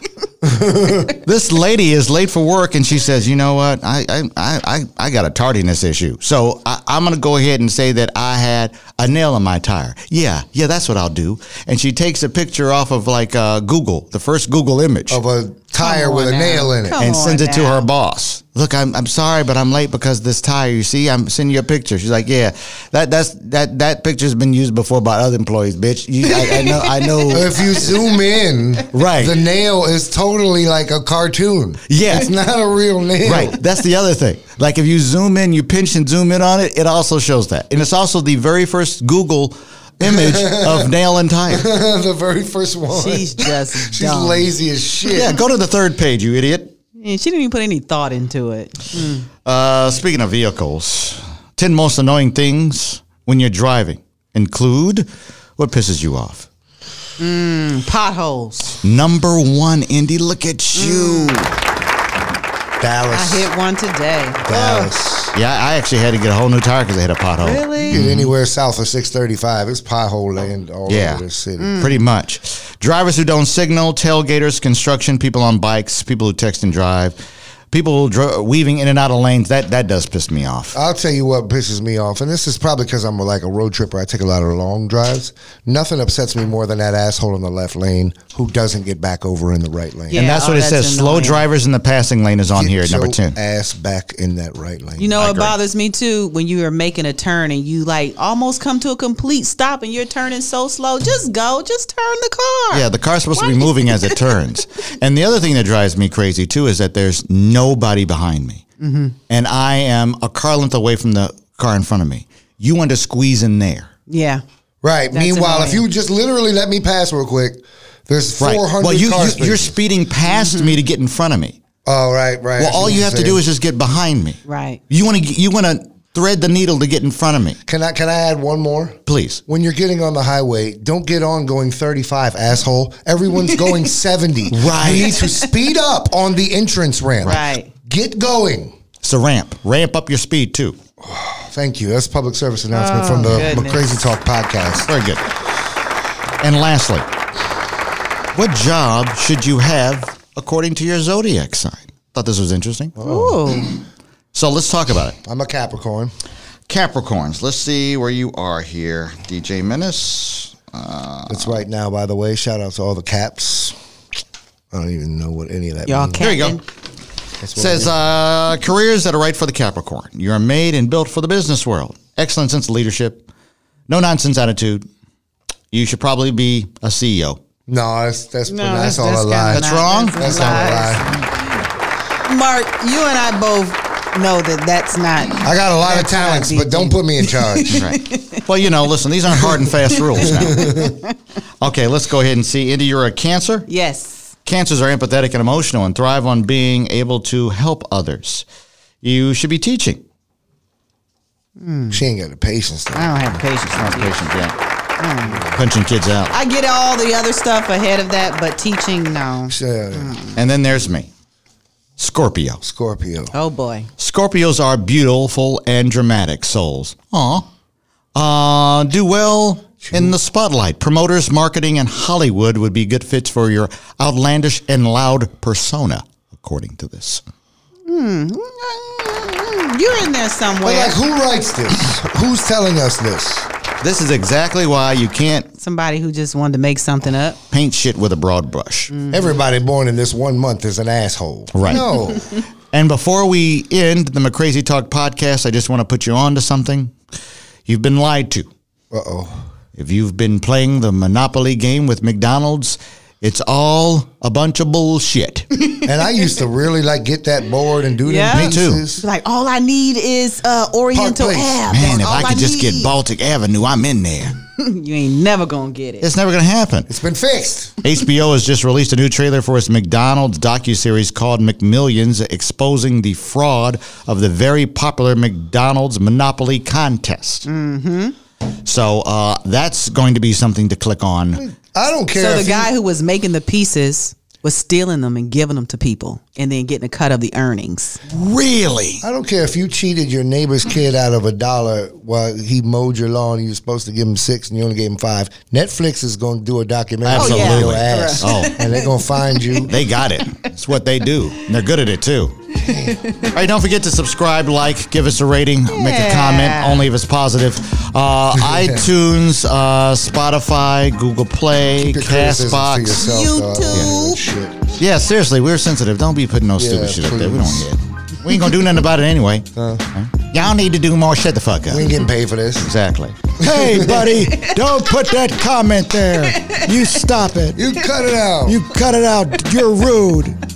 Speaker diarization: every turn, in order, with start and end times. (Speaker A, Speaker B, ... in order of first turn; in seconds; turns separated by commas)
Speaker A: 0.4-1.1, Speaker B: 1.2-15.2, Speaker A: 15.1-17.0, Speaker C: 15.8-17.9, Speaker B: 17.0-27.9, Speaker C: 26.3-27.4, Speaker A: 27.3-33.6, Speaker B: 28.9-29.4, Speaker B: 31.9-32.3, Speaker B: 33.2-41.7, Speaker A: 40.0-40.9, Speaker A: 41.5-45.3, Speaker C: 42.9-44.5, Speaker B: 45.1-46.7, Speaker C: 47.0-49.3, Speaker B: 49.4-55.1, Speaker B: 55.6-56.5, Speaker C: 57.2-58.8, Speaker B: 58.8-61.5, Speaker C: 60.8-61.4, Speaker A: 62.8-63.5, Speaker C: 63.1-64.9, Speaker A: 64.4-65.3, Speaker B: 65.3-68.3, Speaker C: 67.4-68.0, Speaker A: 67.9-71.8, Speaker B: 70.9-71.2, Speaker C: 71.6-72.0, Speaker B: 71.8-77.2, Speaker B: 77.7-80.8, Speaker A: 80.7-90.2, Speaker C: 90.1-91.4, Speaker B: 90.1-93.4, Speaker A: 92.5-95.1, Speaker C: 95.0-104.3, Speaker B: 95.2-95.5, Speaker B: 102.7-108.6, Speaker C: 108.8-109.1, Speaker B: 109.3-113.9, Speaker C: 114.1-114.4, Speaker A: 114.8-119.8, Speaker C: 115.1-115.8, Speaker B: 118.4-121.6, Speaker C: 120.3-120.8, Speaker A: 121.8-123.4, Speaker B: 122.6-127.6, Speaker C: 124.4-124.8, Speaker A: 127.7-138.8, Speaker B: 129.1-129.4, Speaker C: 133.4-133.9, Speaker B: 134.5-135.2, Speaker C: 134.8-135.5, Speaker C: 137.2-137.7, Speaker B: 139.0-140.8, Speaker A: 141.0-144.9, Speaker C: 142.7-144.1, Speaker B: 144.9-145.2, Speaker B: 146.4-147.1, Speaker B: 148.3-152.9, Speaker A: 152.9-153.5, Speaker C: 153.0-153.8, Speaker B: 154.3-155.2, Speaker A: 155.2-156.1, Speaker B: 156.7-161.6, Speaker A: 161.3-163.8, Speaker A: 164.7-166.3, Speaker C: 165.9-166.6, Speaker B: 166.2-166.6, Speaker A: 167.4-167.9, Speaker B: 167.6-173.3, Speaker B: 173.9-174.9, Speaker B: 175.7-177.4, Speaker A: 177.7-181.1, Speaker C: 178.5-181.7, Speaker B: 179.5-180.7, Speaker C: 182.2-188.4, Speaker A: 185.4-187.8, Speaker B: 187.7-190.9, Speaker C: 189.9-191.1, Speaker A: 190.1-191.0, Speaker B: 191.6-193.7, Speaker C: 193.7-194.3, Speaker B: 194.4-198.4, Speaker B: 199.0-200.0, Speaker C: 201.6-202.0, Speaker A: 201.9-203.3, Speaker C: 202.9-204.2, Speaker B: 203.8-204.6, Speaker C: 205.0-205.5, Speaker B: 205.5-206.3, Speaker C: 206.3-210.4, Speaker A: 209.5-210.2, Speaker B: 210.3-211.1, Speaker B: 212.0-212.6, Speaker A: 212.6-213.3, Speaker C: 213.3-213.9, Speaker B: 214.0-217.5, Speaker B: 218.1-227.2, Speaker A: 219.8-220.1, Speaker C: 227.9-231.0, Speaker A: 230.6-233.5, Speaker B: 233.8-235.5, Speaker C: 235.6-237.4, Speaker B: 237.5-238.9, Speaker C: 238.9-239.2, Speaker A: 239.1-242.3, Speaker B: 241.5-241.9, Speaker B: 242.7-246.9, Speaker B: 247.7-248.5, Speaker A: 248.9-249.4, Speaker B: 249.8-255.5, Speaker A: 255.8-259.0, Speaker C: 258.0-262.9, Speaker B: 258.3-258.8, Speaker A: 260.9-262.1, Speaker B: 261.7-264.4, Speaker C: 264.6-266.1, Speaker B: 266.0-266.9, Speaker A: 266.9-267.8, Speaker B: 267.8-277.4, Speaker C: 277.4-278.1, Speaker B: 278.6-281.4, Speaker A: 281.3-282.7, Speaker C: 282.1-288.0, Speaker B: 288.1-289.0, Speaker A: 289.0-299.7, Speaker B: 297.1-298.5, Speaker C: 297.1-299.7, Speaker B: 299.6-302.6, Speaker A: 302.6-303.0, Speaker C: 302.7-303.3, Speaker B: 303.2-313.1, Speaker C: 305.7-306.9, Speaker A: 308.4-308.8, Speaker A: 311.8-314.8, Speaker C: 312.9-314.2, Speaker B: 314.8-322.0, Speaker A: 316.6-317.7, Speaker A: 319.6-319.9, Speaker A: 321.7-322.7, Speaker B: 322.6-327.6, Speaker A: 323.4-324.1, Speaker A: 327.6-328.6, Speaker B: 328.4-330.4